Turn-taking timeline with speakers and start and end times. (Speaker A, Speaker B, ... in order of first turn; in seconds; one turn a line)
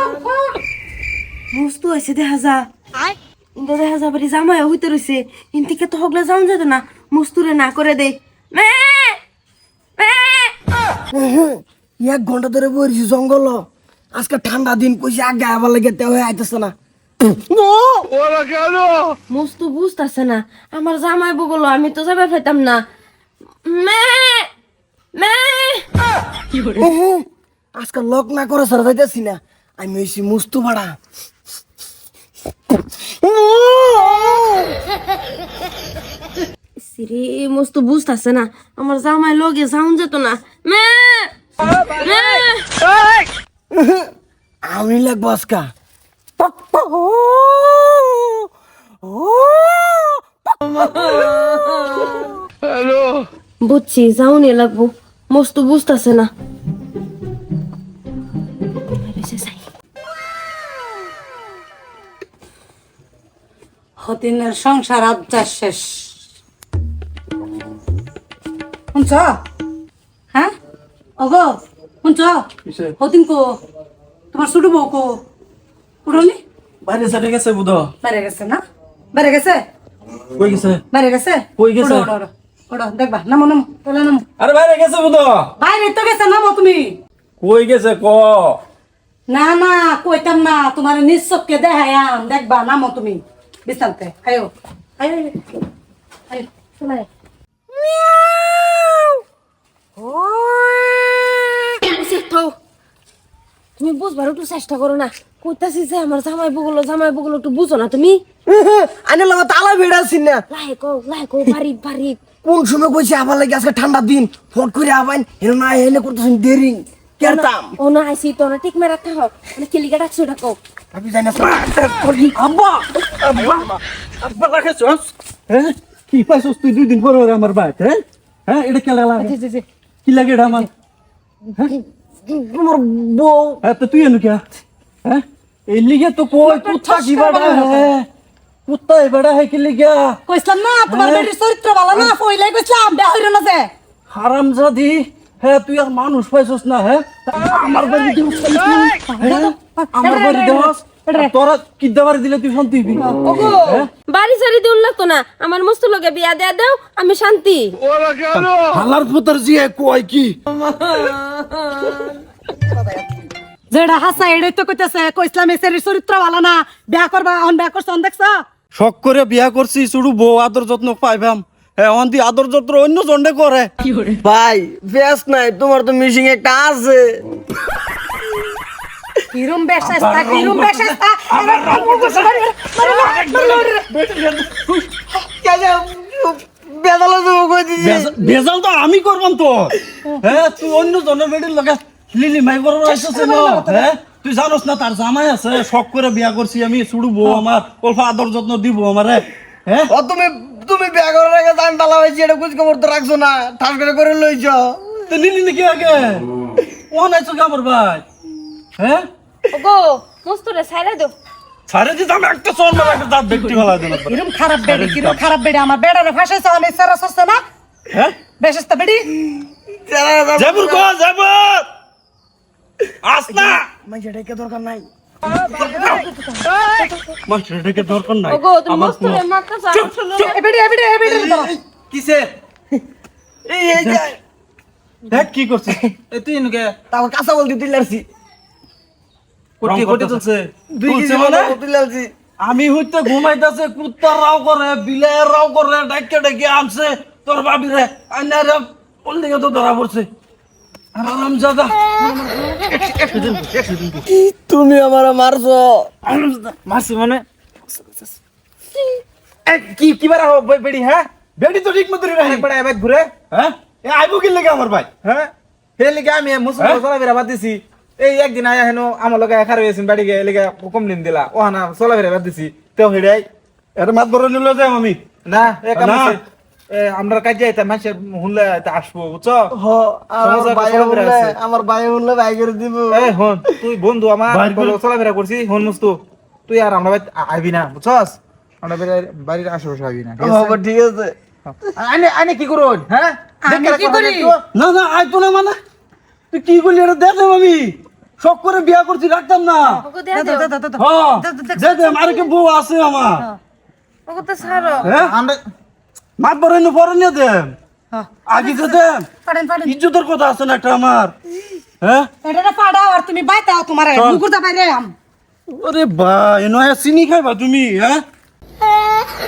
Speaker A: 1.5-2.7
Speaker A: 3.6-9.2
Speaker A: 10.0-10.6
Speaker B: 11.1-18.5
Speaker A: 19.3-22.8
Speaker A: 23.7-24.5
Speaker A: 25.1-25.9
Speaker B: 26.6-31.0
Speaker B: 33.0-34.7
Speaker A: 36.8-41.3
Speaker A: 42.0-42.7
Speaker B: 43.7-44.1
Speaker B: 44.6-45.7
Speaker B: 46.4-48.5
Speaker B: 49.0-52.3
Speaker A: 53.6-56.3
Speaker A: 58.8-59.6
Speaker C: 64.0-66.1
Speaker C: 68.9-69.4
Speaker C: 71.2-72.5
Speaker D: 72.7-73.0
Speaker C: 73.0-73.6
Speaker C: 74.3-75.2
Speaker C: 76.0-76.4
Speaker D: 76.8-77.9
Speaker C: 78.0-78.6
Speaker C: 79.1-79.6
Speaker D: 80.4-80.8
Speaker C: 80.9-84.3
Speaker D: 81.6-82.1
Speaker D: 84.4-85.5
Speaker C: 85.6-87.0
Speaker D: 87.4-88.6
Speaker C: 89.3-95.4
Speaker C: 96.3-97.1
Speaker B: 97.8-99.1
Speaker B: 100.0-101.5
Speaker A: 101.8-102.5
Speaker A: 103.8-108.2
Speaker B: 108.5-110.4
Speaker A: 110.5-112.2
Speaker B: 112.4-117.8
Speaker A: 117.2-120.6
Speaker B: 120.9-121.7
Speaker D: 121.4-129.3
Speaker C: 129.2-129.7
Speaker D: 130.1-130.7
Speaker B: 132.3-133.6
Speaker D: 133.6-134.4
Speaker D: 135.1-138.1
Speaker C: 136.4-137.9
Speaker D: 138.7-140.2
Speaker C: 140.3-143.7
Speaker D: 140.9-141.3
Speaker D: 144.1-153.9
Speaker C: 149.0-151.3
Speaker A: 150.1-150.3
Speaker C: 153.0-153.2
Speaker A: 153.2-157.8
Speaker D: 158.2-160.4
Speaker A: 160.7-162.1
Speaker C: 163.7-168.4
Speaker D: 168.7-173.7
Speaker B: 174.2-177.2
Speaker C: 179.3-183.9
Speaker D: 179.8-184.9
Speaker B: 185.1-188.1
Speaker D: 187.8-199.9
Speaker C: 192.8-193.9
Speaker B: 199.9-204.8
Speaker D: 205.1-206.2
Speaker D: 206.9-208.0
Speaker D: 208.8-209.0
Speaker A: 209.5-211.1
Speaker D: 211.7-215.3
Speaker C: 213.5-217.4
Speaker D: 217.9-218.2
Speaker C: 218.4-219.1
Speaker B: 219.3-220.9
Speaker D: 220.4-221.7
Speaker D: 223.0-223.6
Speaker B: 223.3-224.9
Speaker D: 225.5-226.1
Speaker C: 225.9-226.4
Speaker D: 227.2-230.4
Speaker A: 228.3-230.2
Speaker C: 230.2-231.5
Speaker E: 231.1-232.3
Speaker B: 233.5-234.2
Speaker D: 233.7-234.2
Speaker D: 235.1-235.8
Speaker E: 236.1-236.7
Speaker B: 236.9-238.1
Speaker E: 239.6-240.6
Speaker D: 239.6-240.2
Speaker B: 240.7-242.1
Speaker D: 240.8-241.5
Speaker D: 242.4-250.1
Speaker D: 251.0-251.8
Speaker C: 252.0-252.8
Speaker E: 252.7-254.0
Speaker B: 254.1-255.9
Speaker E: 256.1-258.1
Speaker E: 259.4-261.1
Speaker D: 261.4-262.5
Speaker E: 262.2-263.1
Speaker D: 263.3-264.9
Speaker E: 265.0-273.2
Speaker D: 273.8-275.0
Speaker E: 275.2-279.4
Speaker D: 275.8-276.2
Speaker B: 279.5-283.1
Speaker E: 280.2-281.4
Speaker E: 282.9-290.6
Speaker D: 284.3-284.8
Speaker B: 290.2-291.1
Speaker E: 291.5-294.4
Speaker C: 293.4-294.4
Speaker D: 294.5-295.6
Speaker D: 296.3-299.8
Speaker A: 299.7-300.5
Speaker C: 300.1-302.2
Speaker D: 300.8-303.2
Speaker A: 304.1-304.9
Speaker E: 304.5-305.4
Speaker D: 304.8-305.1
Speaker D: 306.2-307.6
Speaker C: 307.9-309.8
Speaker D: 308.2-309.1
Speaker D: 309.6-311.1
Speaker D: 311.8-312.1
Speaker C: 312.2-314.9
Speaker D: 313.9-314.2
Speaker D: 315.5-318.0